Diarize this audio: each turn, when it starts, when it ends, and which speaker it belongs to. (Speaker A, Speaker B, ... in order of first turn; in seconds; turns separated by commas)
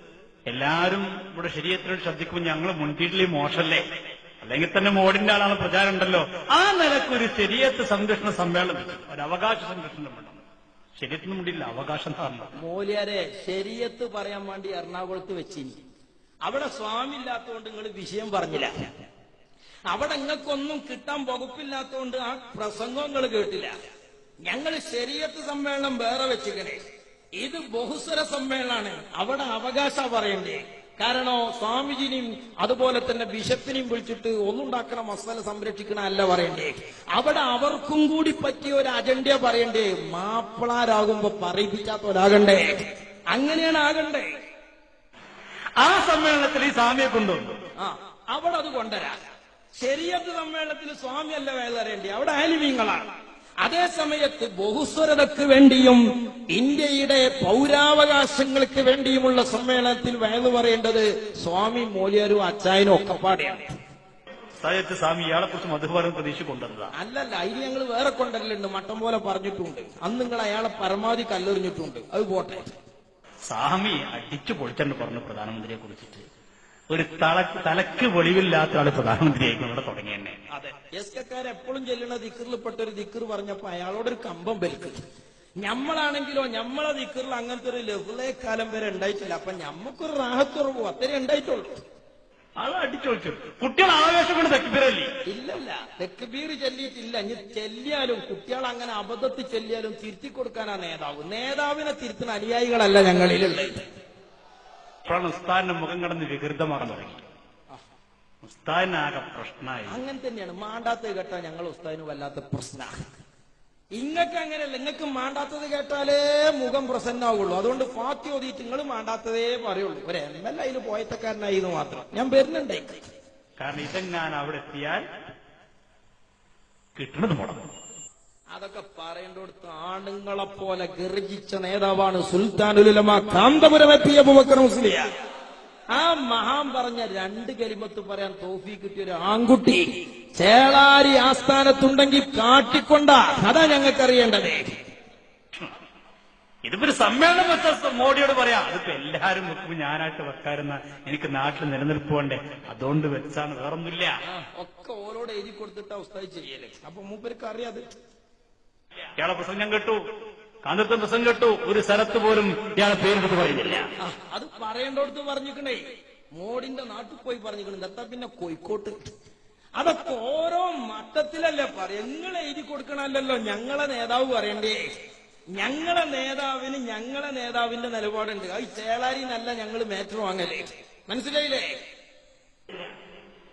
Speaker A: 0.5-3.9, Speaker A: 4.4-10.4, Speaker A: 11.0-12.5, Speaker B: 12.6-15.8, Speaker B: 16.4-18.7, Speaker B: 19.9-23.7, Speaker B: 24.5-26.8, Speaker B: 27.4-44.3, Speaker A: 45.8-47.6, Speaker B: 47.8-49.2, Speaker B: 49.8-63.7, Speaker A: 64.6-66.9, Speaker B: 66.9-72.7, Speaker A: 73.5-76.3, Speaker A: 76.9-80.4, Speaker B: 80.5-85.0, Speaker B: 85.6-91.8, Speaker A: 92.6-95.1, Speaker B: 95.3-103.8, Speaker A: 105.0-107.2, Speaker A: 108.4-110.0, Speaker B: 109.9-112.9, Speaker B: 114.0-123.0, Speaker A: 123.6-125.0, Speaker A: 127.0-127.7, Speaker B: 128.5-135.1, Speaker B: 135.9-144.8, Speaker A: 146.6-154.2, Speaker B: 154.3-157.8, Speaker A: 159.2-160.0, Speaker A: 160.6-163.9, Speaker B: 164.0-165.8, Speaker B: 166.4-169.0, Speaker B: 169.8-174.8, Speaker B: 175.5-181.7